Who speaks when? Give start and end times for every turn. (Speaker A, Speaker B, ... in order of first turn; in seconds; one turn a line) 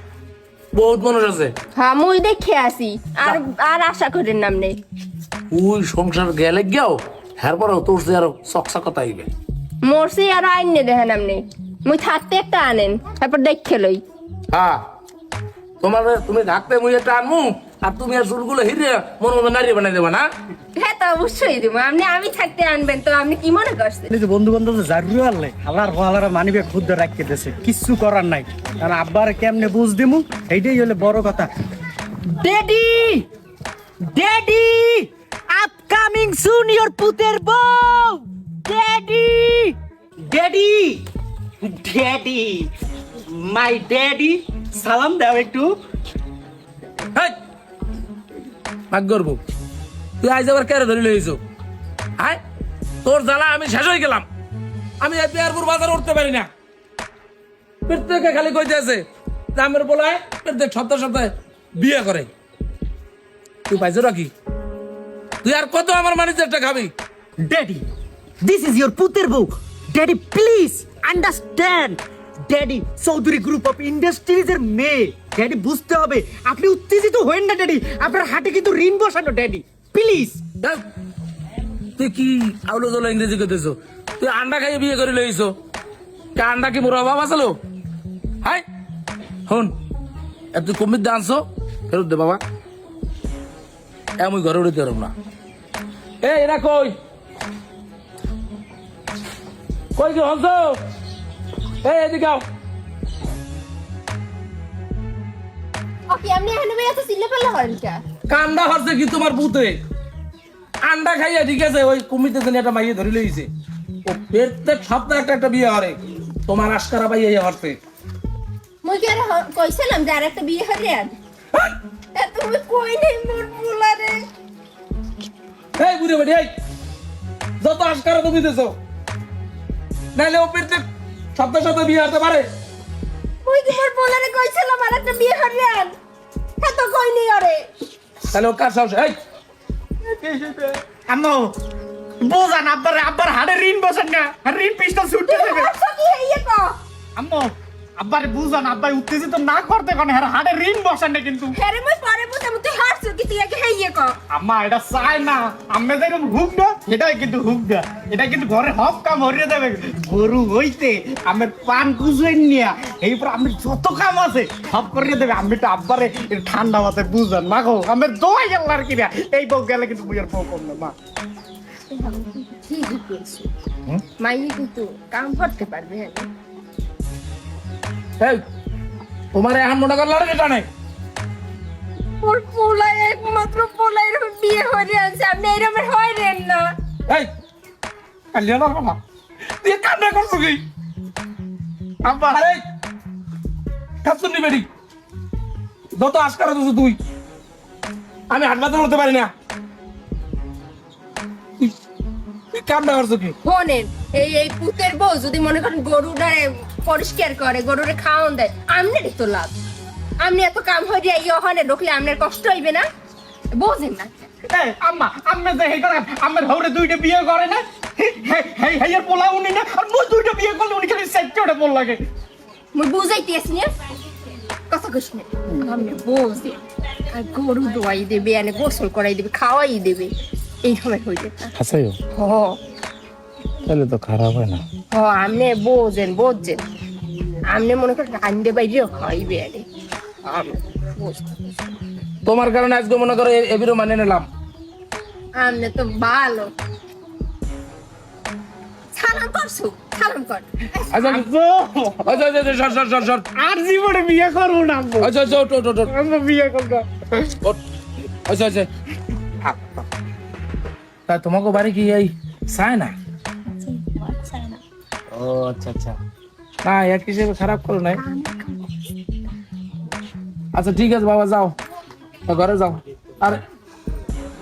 Speaker A: 0.7-1.5
Speaker B: 1.7-4.8
Speaker A: 5.5-9.3
Speaker B: 9.8-14.0
Speaker A: 14.5-14.8
Speaker A: 15.8-20.2
Speaker B: 20.8-24.1
Speaker C: 24.1-31.5
Speaker C: 32.3-33.2
Speaker C: 34.1-39.7
Speaker C: 40.2-41.0
Speaker C: 41.6-42.7
Speaker C: 43.3-45.7
Speaker A: 48.9-49.4
Speaker A: 50.2-51.4
Speaker A: 53.0-54.2
Speaker A: 55.0-56.5
Speaker A: 57.9-59.0
Speaker A: 59.5-62.3
Speaker A: 63.7-64.3
Speaker A: 65.4-66.9
Speaker C: 67.4-67.8
Speaker C: 68.4-80.4
Speaker A: 82.0-85.5
Speaker A: 86.3-87.5
Speaker A: 89.5-89.7
Speaker A: 90.5-92.4
Speaker A: 94.2-95.1
Speaker A: 96.2-96.9
Speaker A: 100.0-100.8
Speaker A: 101.8-102.4
Speaker B: 106.1-108.0
Speaker A: 108.3-109.8
Speaker A: 110.8-113.5
Speaker A: 114.0-117.8
Speaker B: 118.8-121.1
Speaker B: 122.1-124.2
Speaker A: 125.8-126.5
Speaker A: 127.6-128.8
Speaker A: 130.1-130.8
Speaker A: 131.3-132.4
Speaker B: 133.4-135.9
Speaker B: 136.6-137.7
Speaker A: 138.3-139.2
Speaker C: 140.1-141.5
Speaker C: 142.2-145.7
Speaker B: 145.3-146.7
Speaker C: 147.2-151.5
Speaker B: 151.5-154.2
Speaker C: 154.3-170.9
Speaker B: 171.9-173.5
Speaker B: 174.2-176.3
Speaker A: 179.3-180.7
Speaker B: 182.2-186.7
Speaker A: 188.3-189.0
Speaker A: 189.6-190.6
Speaker A: 192.0-192.6
Speaker A: 194.0-194.7
Speaker A: 195.9-197.0
Speaker A: 198.3-199.3
Speaker A: 202.6-203.3
Speaker B: 203.4-209.5
Speaker B: 210.2-212.8
Speaker B: 213.5-214.3
Speaker C: 214.5-222.0
Speaker B: 222.7-223.7
Speaker B: 224.7-226.6
Speaker B: 227.1-230.1
Speaker B: 230.6-231.5
Speaker A: 231.6-232.0
Speaker B: 232.1-232.6
Speaker A: 233.7-234.6
Speaker B: 234.9-236.6
Speaker B: 237.5-239.6
Speaker B: 240.2-241.2
Speaker A: 242.2-244.3
Speaker B: 245.4-246.5
Speaker B: 248.9-250.9
Speaker A: 250.9-251.3
Speaker C: 251.0-252.2
Speaker A: 252.0-253.2
Speaker C: 253.3-255.1
Speaker A: 255.0-255.9
Speaker C: 255.8-256.9
Speaker A: 258.3-258.7
Speaker A: 259.4-259.8
Speaker A: 261.1-262.9
Speaker A: 265.1-266.0
Speaker A: 266.6-268.0
Speaker B: 268.1-268.6
Speaker A: 270.5-271.5
Speaker A: 272.3-273.4